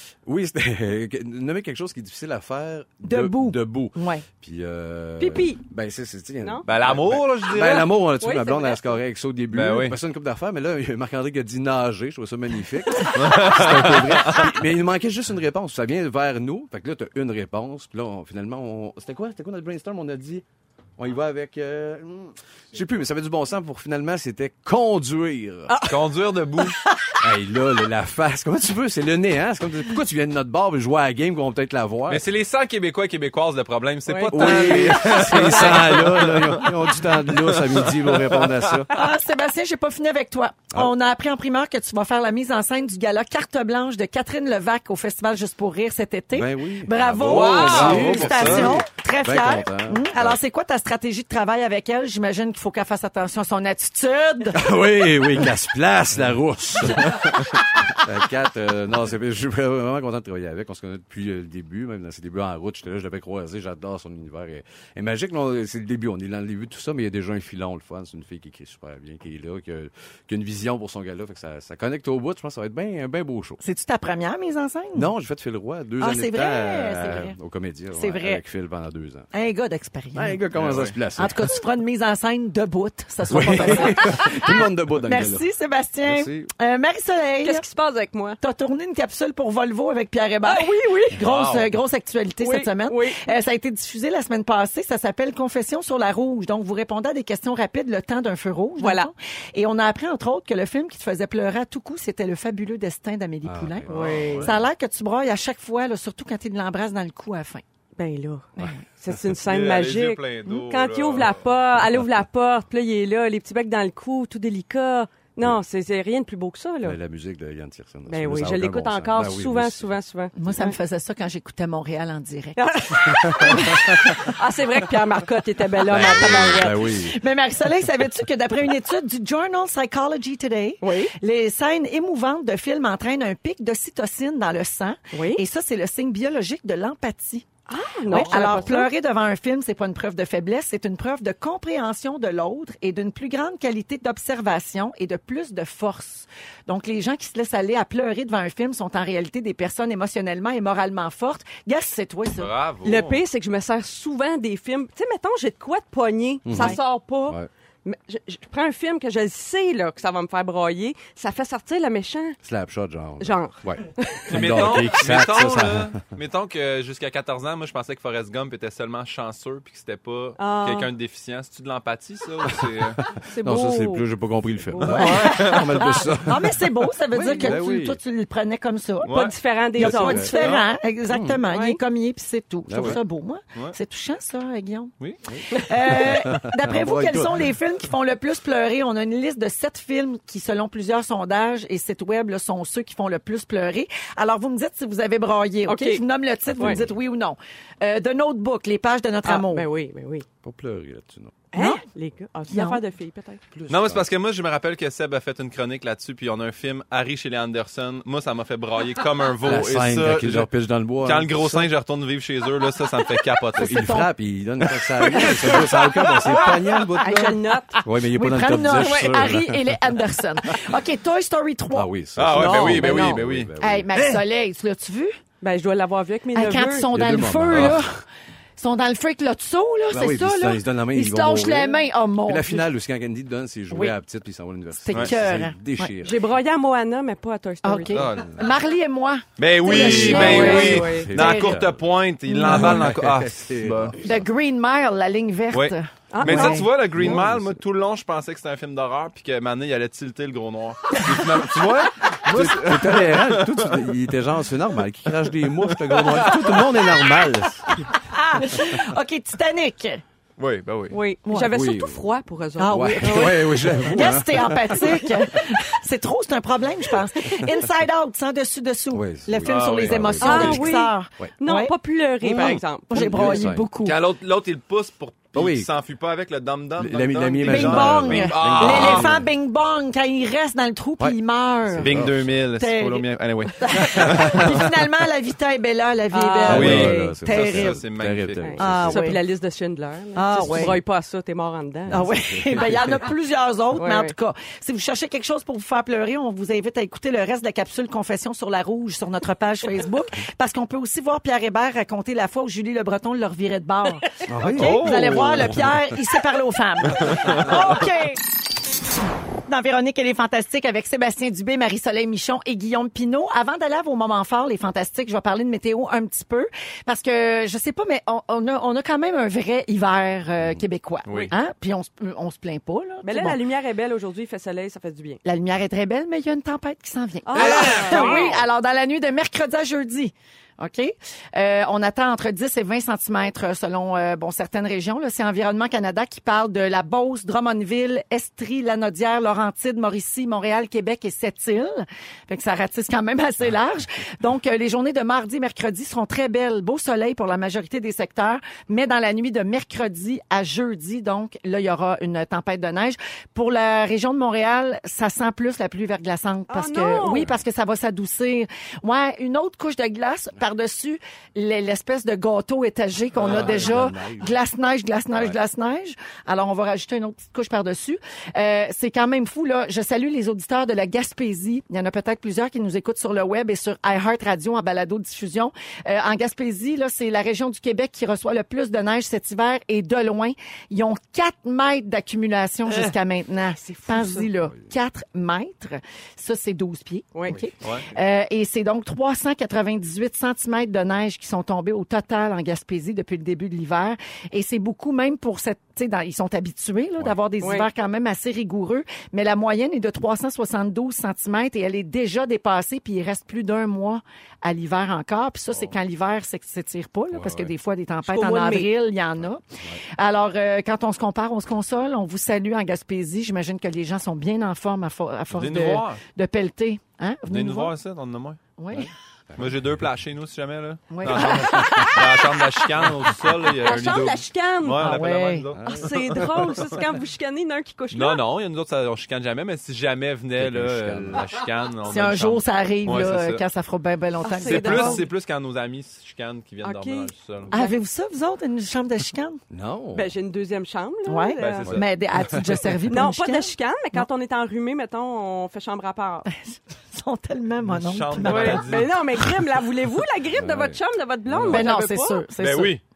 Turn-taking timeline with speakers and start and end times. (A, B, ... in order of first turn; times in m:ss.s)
0:00.2-0:20.4 A
0:03.0-0:04.2 B
0:05.2-0:05.6 C
0:06.6-0:07.9 D
0:08.2-0:08.9 C
0:09.5-0:10.0 D
0:13.1-0:14.5 D
0:21.0-0:25.8 A
0:25.7-0:26.0 C
0:25.8-0:26.8 D
0:27.2-0:32.2 A
0:32.1-0:38.8 D
0:34.1-0:36.4 C
0:34.3-0:38.9 A
0:38.9-0:54.7 B
0:46.3-0:50.4 A
0:47.2-0:48.8 D
0:54.5-1:13.6 A
1:13.6-1:15.1 B
1:14.9-1:19.3 A
1:16.0-1:17.4 B
1:17.9-1:18.4 B
1:19.3-1:20.4 B
1:20.1-1:21.5 A
1:20.5-1:21.0 D
1:21.2-1:27.6 B
1:23.3-1:25.4 A
1:26.0-1:26.5 A
1:27.4-1:28.4 C
1:28.4-1:43.9 B
1:30.4-1:31.2 C
1:31.2-1:31.7 D
1:32.4-1:33.3 C
1:38.8-1:39.1 C
1:43.4-1:44.5 A
1:43.9-1:44.5 D
1:43.9-1:44.5 C
1:44.4-1:47.6 B
1:48.0-1:57.0 C
1:49.3-1:51.4 D
1:56.8-1:59.9 A
1:58.1-2:00.8 C
2:00.3-2:04.0 B
2:02.6-2:06.9 C
2:03.3-2:04.1 A
2:05.8-2:07.2 A
2:06.0-2:17.4 B
2:10.8-2:11.1 C
2:15.1-2:15.4 C
2:17.7-2:18.9 C
2:18.1-2:32.5 B
2:32.3-2:33.2 D
2:32.8-2:42.4 C
2:36.4-2:37.5 A
2:42.4-2:46.0 A
2:43.2-2:44.7 C
2:44.3-2:53.0 D
2:50.4-2:50.9 C
2:53.3-2:54.0 C
2:53.4-2:58.0 A
2:54.7-2:56.0 C
2:54.8-2:59.2 B
2:54.9-2:56.0 D
2:59.0-2:59.4 D
2:59.1-3:00.6 C
2:59.7-3:04.9 B
2:59.8-3:00.3 A
3:00.4-3:00.6 D
3:01.1-3:01.4 A
3:01.5-3:01.8 C
3:02.7-3:03.0 A
3:05.3-3:07.5 A
3:05.5-3:19.7 B
3:15.7-3:16.0 C
3:16.5-3:16.9 A
3:19.2-3:20.2 C
3:20.4-3:21.4 A
3:21.5-3:23.4 C
3:21.5-3:21.8 B
3:22.5-3:22.8 B
3:23.5-3:24.1 A
3:23.7-3:30.5 D
3:29.4-3:31.7 A
3:31.0-3:33.8 D
3:33.6-3:34.1 B
3:33.6-3:40.5 A
3:35.1-3:36.6 D
3:35.2-3:35.6 B
3:36.3-3:37.8 C
3:37.0-3:41.9 B
3:41.7-3:44.2 A
3:42.2-3:43.5 D
3:42.3-3:43.2 C
3:43.6-3:45.1 B
3:45.4-3:46.9 C
3:46.3-3:48.0 B
3:46.9-3:47.9 A
3:47.5-3:47.8 D
3:48.6-3:52.6 B
3:49.9-3:56.2 A
3:54.8-3:55.9 B
3:56.0-3:58.0 C
3:57.6-4:01.6 B
3:57.9-3:58.4 D
3:59.4-4:03.9 D
3:59.7-4:01.1 C
3:59.7-4:01.8 A
4:02.3-4:02.9 B
4:02.4-4:04.2 A
4:04.0-4:06.7 B
4:05.5-4:13.9 D
4:06.1-4:06.6 C
4:06.2-4:07.6 A
4:10.9-4:11.2 B
4:12.2-4:17.8 A
4:15.6-4:17.0 D
4:17.7-4:20.0 B
4:20.4-4:21.0 D
4:20.9-4:23.8 C
4:21.2-4:21.5 B
4:21.5-4:22.1 A
4:22.6-4:34.0 B
4:22.6-4:25.0 A
4:24.6-4:25.4 C
4:28.9-4:31.3 A
4:29.4-4:30.3 D
4:30.2-4:33.4 C
4:32.3-4:33.7 A
4:33.8-4:39.1 D
4:35.3-4:35.7 A
4:36.8-4:39.3 A
4:37.4-4:43.1 B
4:41.0-4:42.3 A
4:41.8-4:44.7 D
4:43.6-4:47.8 B
4:43.9-4:44.5 A
4:46.1-4:46.8 C
4:46.4-4:49.1 A
4:46.5-4:48.7 D
4:48.4-4:52.0 C
4:48.6-4:49.2 B
4:50.1-4:50.8 B
4:50.5-4:50.8 A
4:51.9-4:53.0 A
4:51.9-5:08.2 B
4:53.8-4:54.1 C
5:04.3-5:05.7 A
5:04.4-5:05.7 D
5:07.0-5:07.5 D
5:09.4-5:23.4 B
5:21.1-5:21.3 D
5:23.0-5:25.2 C
5:25.2-6:49.4 B
5:27.2-5:28.4 C
5:27.4-5:28.4 D
5:56.5-5:57.3 C
5:57.1-5:57.4 A
6:03.1-6:04.3 A
6:03.2-6:03.6 D
6:23.6-6:24.3 C
6:27.1-6:27.4 C
6:27.6-6:27.9 D
6:37.4-6:37.7 C
6:47.1-6:47.5 A
6:48.0-6:48.7 C
6:49.2-6:49.8 A
6:49.9-6:57.7 B
6:55.3-6:56.0 D
6:57.3-6:58.4 D
6:58.6-6:58.9 B
6:58.7-6:59.6 A
6:59.4-7:06.8 D
7:00.9-7:02.5 B
7:01.7-7:02.0 C
7:03.6-7:05.0 C
7:04.8-7:05.5 B
7:05.6-7:05.9 A
7:05.6-7:08.2 C
7:07.9-7:13.4 D
7:10.4-7:11.3 A
7:11.9-7:15.0 B
7:14.2-7:15.1 C
7:14.4-7:17.6 D
7:16.6-7:17.8 C
7:17.5-7:19.4 B
7:19.5-7:20.1 A
7:19.9-7:21.7 C
7:21.1-7:24.1 B
7:21.4-7:21.8 D
7:21.7-7:22.6 A
7:22.9-7:26.3 C
7:26.3-7:28.6 B
7:27.6-7:29.1 D
7:28.2-7:32.2 C
7:30.3-7:31.6 A
7:31.3-7:31.7 D
7:31.5-7:32.8 B
7:32.4-7:32.8 D